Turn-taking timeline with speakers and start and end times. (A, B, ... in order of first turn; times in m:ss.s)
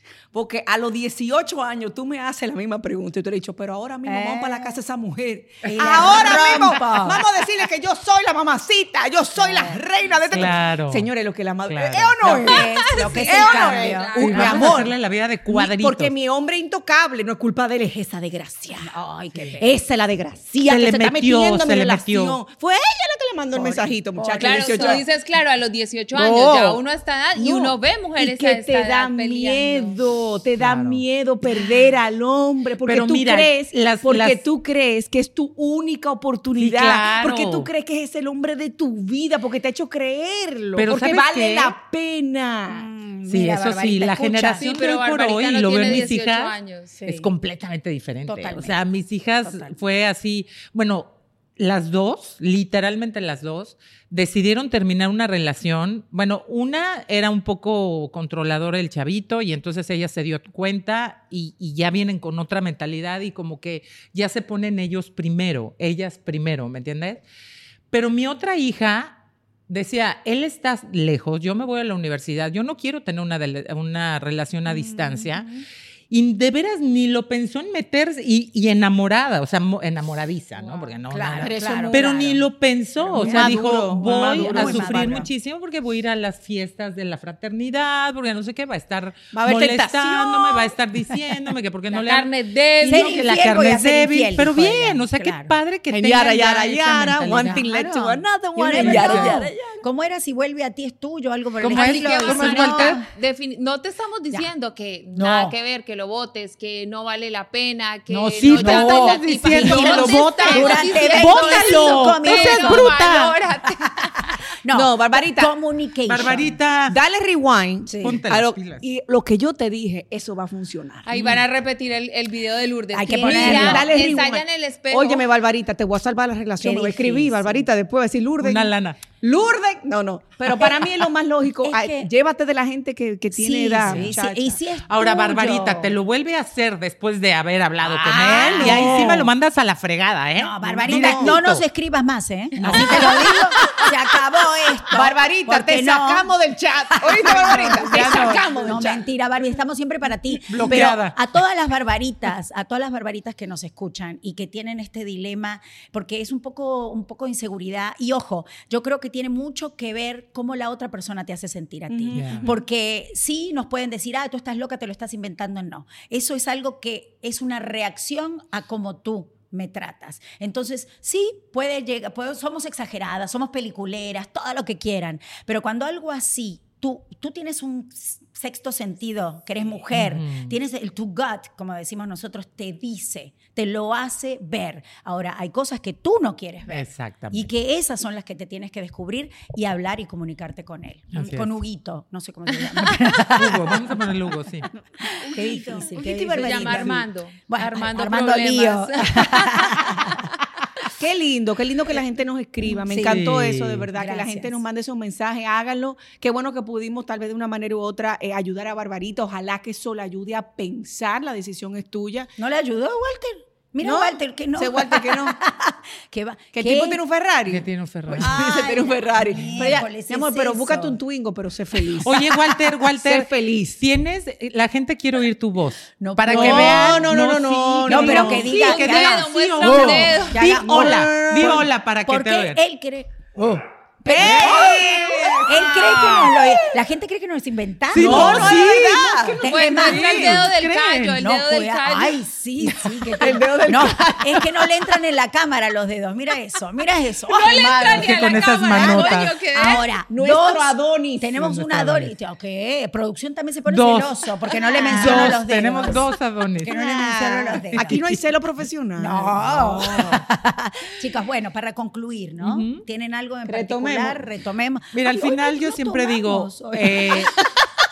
0:00.3-0:14.9 A
0:04.0-0:04.8 B
0:05.6-0:07.2 B
0:05.7-0:06.8 C
0:09.4-0:09.8 B
0:10.3-0:11.1 C
0:11.7-0:12.4 C
0:12.2-0:14.7 B
0:12.8-0:14.8 D
0:14.2-0:16.1 C
0:15.5-0:18.9 A
0:18.8-0:19.7 B
0:19.6-0:25.0 A
0:20.6-0:22.4 C
0:23.5-0:25.0 B
0:24.4-0:30.0 D
0:26.1-0:26.8 A
0:27.3-0:42.9 A
0:30.6-0:31.0 C
0:32.8-0:34.4 C
0:36.6-0:37.7 C
0:40.8-0:41.7 C
0:42.7-0:44.6 B
0:43.3-0:46.5 C
0:44.5-0:46.9 D
0:47.0-0:47.3 B
0:47.0-1:07.2 C
0:48.2-0:48.8 B
0:49.4-0:49.7 B
1:07.9-1:15.5 C
1:14.7-1:15.4 B
1:16.1-1:32.3 C
1:20.6-1:21.0 D
1:21.1-1:22.0 B
1:21.4-1:22.4 A
1:23.0-1:25.3 A
1:23.1-1:25.3 B
1:29.3-1:30.7 A
1:31.9-1:33.3 D
1:32.8-1:37.6 C
1:32.8-1:35.5 B
1:35.9-1:39.8 A
1:37.4-1:43.1 B
1:38.7-1:39.4 C
1:41.6-1:43.0 C
1:41.6-1:54.3 D
1:45.1-1:45.6 B
1:48.1-1:53.3 C
1:48.6-1:52.9 B
1:49.5-1:51.0 A
1:53.8-1:56.5 B
1:54.7-1:55.5 A
1:56.0-1:57.0 C
1:56.9-2:01.1 A
1:57.8-1:58.2 B
1:58.0-1:58.8 C
2:01.0-2:05.2 D
2:01.1-2:01.4 C
2:02.9-2:03.9 B
2:03.2-2:14.6 A
2:06.6-2:07.7 B
2:08.4-2:09.0 C
2:11.6-2:12.1 B
2:13.3-2:15.9 B
2:13.8-2:14.2 C
2:14.9-2:21.6 C
2:17.8-2:19.3 A
2:18.0-2:19.3 B
2:20.4-2:26.3 B
2:20.6-2:21.4 A
2:22.6-2:23.9 C
2:22.6-2:23.9 A
2:24.9-2:29.0 A
2:26.9-3:14.0 B
2:27.2-2:28.5 C
2:30.4-2:31.2 C
2:30.6-2:31.0 A
2:41.9-2:42.6 A
2:42.1-2:42.5 C
2:59.9-3:00.5 C
3:06.7-3:07.5 C
3:11.1-3:11.6 C
3:12.9-3:14.7 C
3:15.0-3:20.3 B
3:15.2-3:17.0 A
3:15.8-3:20.0 D
3:21.0-3:32.3 A
3:22.8-3:23.3 B
3:22.9-3:23.9 C
3:23.9-3:24.6 B
3:32.4-3:37.0 B
3:33.8-3:35.4 A
3:36.5-3:43.8 A
3:37.5-3:38.6 C
3:38.2-3:40.9 B
3:41.9-3:52.6 C
3:46.0-3:47.1 B
3:46.3-3:48.6 A
3:47.8-3:53.3 B
3:48.4-3:50.4 D
3:49.6-3:51.7 A
3:54.0-3:58.7 B
3:54.0-3:56.5 A
3:54.1-3:56.2 C
3:57.9-4:01.2 C
3:57.9-4:00.4 A
3:59.4-4:00.4 B
3:59.4-4:02.2 D
4:01.2-4:16.1 B
4:03.1-4:04.7 A
4:07.3-4:09.8 D
4:07.7-4:09.3 C
4:09.6-4:11.6 A
4:11.5-4:12.1 C
4:13.6-4:14.2 C
4:14.5-4:15.4 D
4:14.9-4:16.7 C
4:15.0-4:15.3 A
4:16.6-4:18.0 B
4:16.6-4:20.2 A
4:17.6-4:18.2 C
4:19.0-4:27.3 B
4:19.4-4:20.2 C
4:22.4-4:22.8 C
4:23.5-4:24.2 A
4:24.9-4:27.3 C
4:27.2-4:27.4 A